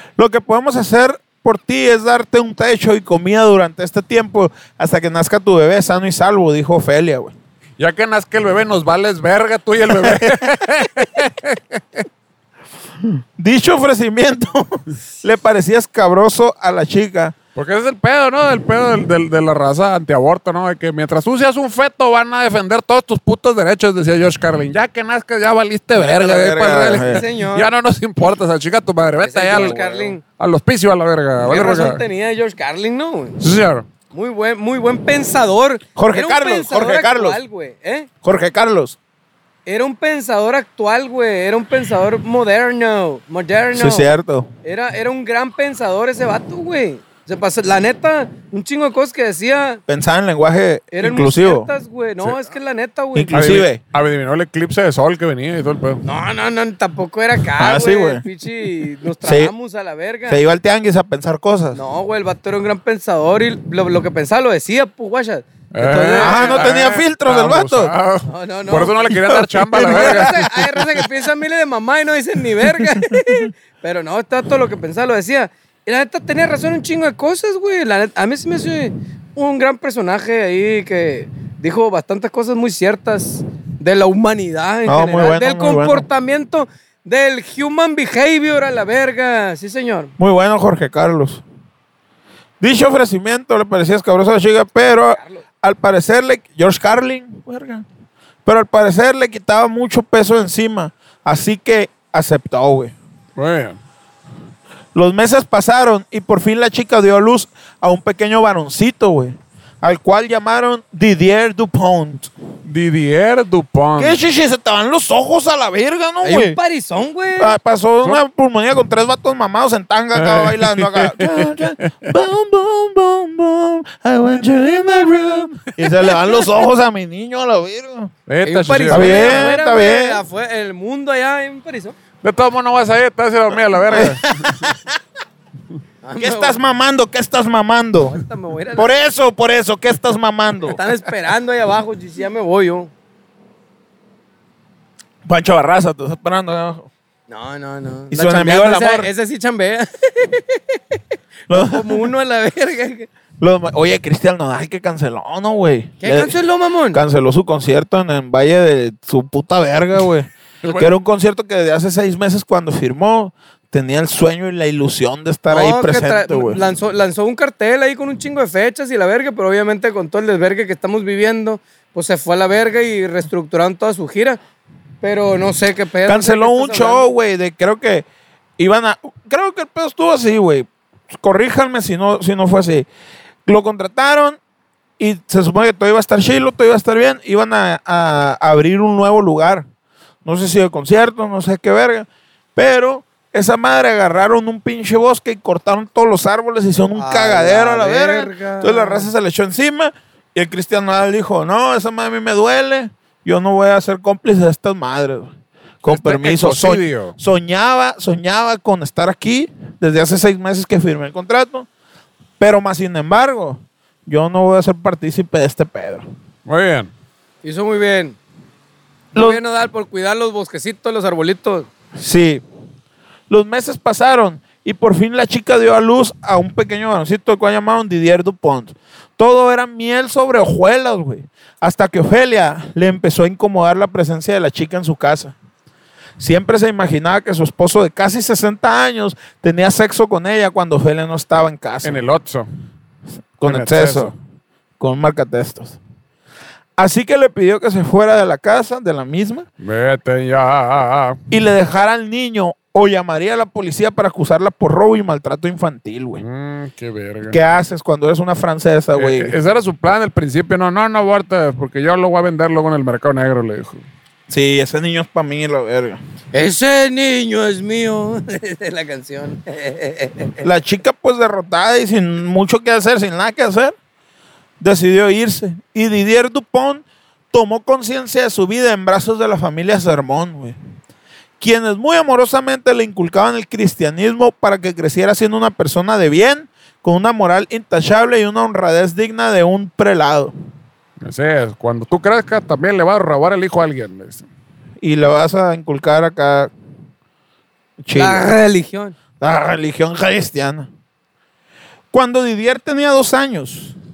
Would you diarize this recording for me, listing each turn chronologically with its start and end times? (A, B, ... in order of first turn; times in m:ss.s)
0:00.2-0:07.3 A
0:07.8-0:12.0 B
0:10.0-0:10.5 A
0:13.0-0:17.4 A
0:17.6-0:32.0 B
0:26.0-0:27.2 A
0:26.6-0:27.7 C
0:29.2-0:30.2 C
0:31.4-0:33.4 C
0:33.4-0:33.9 B
0:34.1-0:38.1 C
0:36.0-0:37.4 A
0:38.2-0:39.0 A
0:39.7-0:44.1 C
0:43.7-0:44.5 A
0:44.6-0:49.8 C
0:49.9-0:51.7 A
0:50.9-0:53.6 C
0:53.1-0:53.8 A
0:53.3-0:56.0 B
0:56.0-1:00.4 C
0:57.6-0:58.2 A
0:59.2-0:59.5 A
1:00.3-1:01.8 A
1:01.7-1:06.7 C
1:05.7-1:10.4 B
1:06.2-1:07.9 A
1:08.3-1:09.1 C
1:09.1-1:11.0 A
1:09.8-1:30.1 C
1:12.8-1:13.1 A
1:24.9-1:26.1 A
1:30.2-1:31.4 A
1:32.6-1:37.8 A
1:35.1-1:35.4 C
1:38.4-1:42.9 A
1:43.4-1:43.8 B
1:44.9-1:52.3 A
1:52.7-1:54.2 B
1:54.0-1:56.6 A
1:56.2-1:57.6 C
1:57.4-2:08.1 A
2:00.2-2:02.1 B
2:08.3-2:09.5 B
2:08.4-2:12.0 C
2:08.9-2:10.2 A
2:12.2-2:14.7 B
2:13.9-2:15.0 A
2:16.0-2:16.6 C
2:16.2-2:18.2 A
2:18.0-2:19.0 C
2:18.8-2:20.8 A
2:20.7-2:22.9 C
2:25.3-2:26.9 A
2:27.3-2:31.0 C
2:28.1-2:29.1 A
2:31.5-2:32.1 A
2:31.5-2:33.1 C
2:33.4-2:36.4 A
2:36.0-2:37.0 C
2:36.9-2:46.6 A
2:40.6-2:40.9 B
2:45.5-2:54.4 C
2:55.0-2:57.1 C
2:56.0-2:58.0 A
2:58.6-3:02.9 A
3:03.5-3:04.4 A
3:05.0-3:09.7 A
3:10.2-3:25.3 A
3:17.0-3:19.1 C
3:25.8-3:31.7 A
3:25.8-3:27.2 B
3:32.4-3:36.1 A
3:36.5-3:36.9 B
3:37.4-3:38.2 C
3:39.1-3:39.4 A
3:39.1-3:41.7 C
3:42.0-3:42.4 A
3:43.3-3:55.4 A
3:56.2-4:02.0 A
4:01.8-4:02.5 B
4:03.4-4:04.1 A
4:03.4-4:04.1 B
4:04.8-4:05.8 A
4:06.8-4:09.5 A
4:09.6-4:11.2 B
4:11.3-4:16.2 A
4:16.2-4:17.4 B
4:17.3-4:19.4 A
4:19.0-4:23.8 B
4:24.3-4:26.0 A
4:26.3-4:30.4 C
4:30.4-4:33.8 A
4:34.6-4:40.6 A
4:41.4-4:50.3 A
4:51.0-4:54.3 B
4:54.8-4:56.5 A
4:57.8-4:58.3 A
4:57.9-4:59.0 C
4:59.2-5:00.7 A
5:01.9-5:03.8 A